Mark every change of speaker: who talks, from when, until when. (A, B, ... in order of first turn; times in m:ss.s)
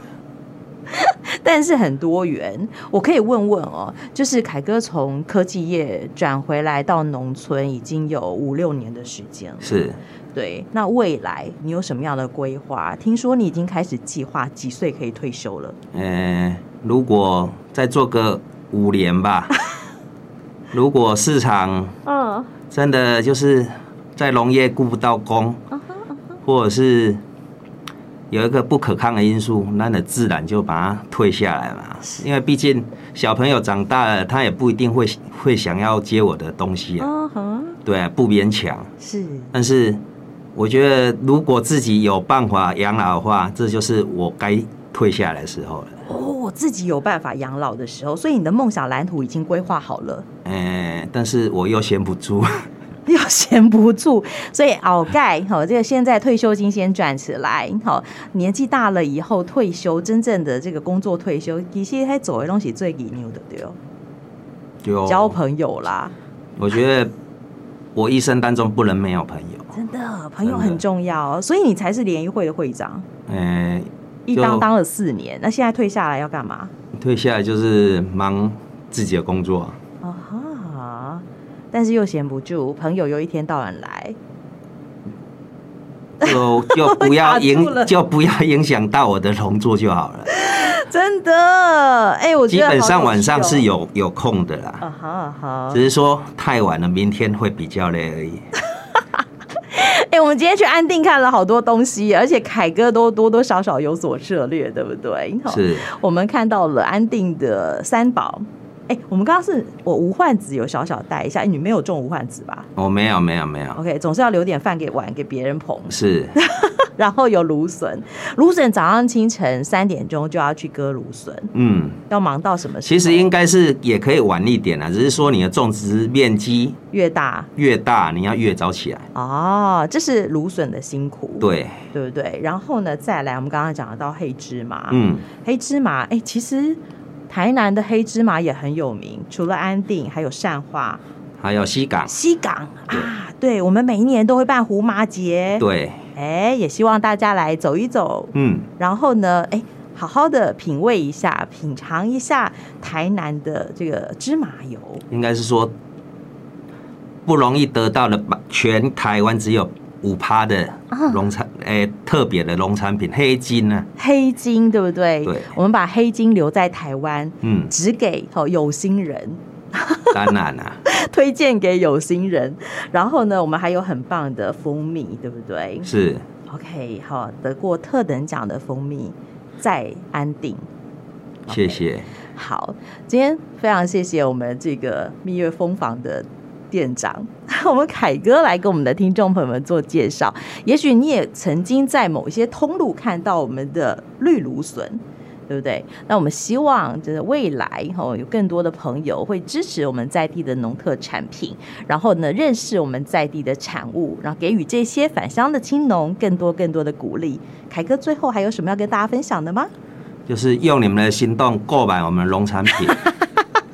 0:00.9-0:15.8 A
0:09.6-0:10.0 B
0:15.9-0:19.5 B
0:20.7-0:22.0 B
0:22.0-0:22.5 A
0:22.7-0:25.6 B
0:26.4-0:27.2 B
0:28.3-0:37.1 B
0:37.0-0:37.8 A
0:37.8-0:38.9 B
0:39.0-0:39.5 A
0:39.5-0:40.0 B
0:40.5-0:46.0 B
0:46.0-0:50.2 A
0:50.4-0:52.6 B
0:53.1-1:03.8 A
1:04.8-1:05.4 B
1:05.0-1:06.1 A
1:06.6-1:07.1 B
1:07.9-1:09.7 B
1:09.7-1:13.0 A
1:10.4-1:10.8 B
1:13.3-1:14.6 B
1:14.3-1:16.7 A
1:17.0-1:19.8 B
1:20.0-1:24.2 A
1:26.2-1:30.3 B
1:26.2-1:27.9 A
1:30.3-1:33.7 A
1:32.5-1:34.8 B
1:34.8-1:35.8 A
1:35.7-1:38.4 B
1:39.6-1:52.7 A
1:45.5-1:45.8 B
1:52.8-1:53.8 B
1:53.8-2:01.5 A
1:55.9-1:56.4 B
2:01.5-2:02.0 B
2:02.1-2:03.2 A
2:02.8-2:06.8 B
2:06.9-2:07.5 A
2:07.6-2:09.1 B
2:09.1-2:21.0 A
2:11.4-2:11.8 B
2:14.9-2:15.2 B
2:21.4-2:22.1 B
2:22.1-2:25.6 A
2:25.6-2:26.0 B
2:26.1-2:35.0 A
2:28.3-2:28.7 B
2:35.1-2:35.7 B
2:37.2-2:43.9 B
2:40.9-2:41.2 A
2:44.0-2:50.3 A
2:45.2-2:45.5 B
2:47.4-2:47.7 B
2:50.1-2:50.8 B
2:50.8-2:55.9 A
2:55.8-2:56.2 B
2:56.5-3:00.6 A
3:01.5-3:01.8 A
3:01.5-3:02.1 B
3:02.3-3:29.7 A
3:30.3-3:33.0 B
3:32.9-3:33.3 A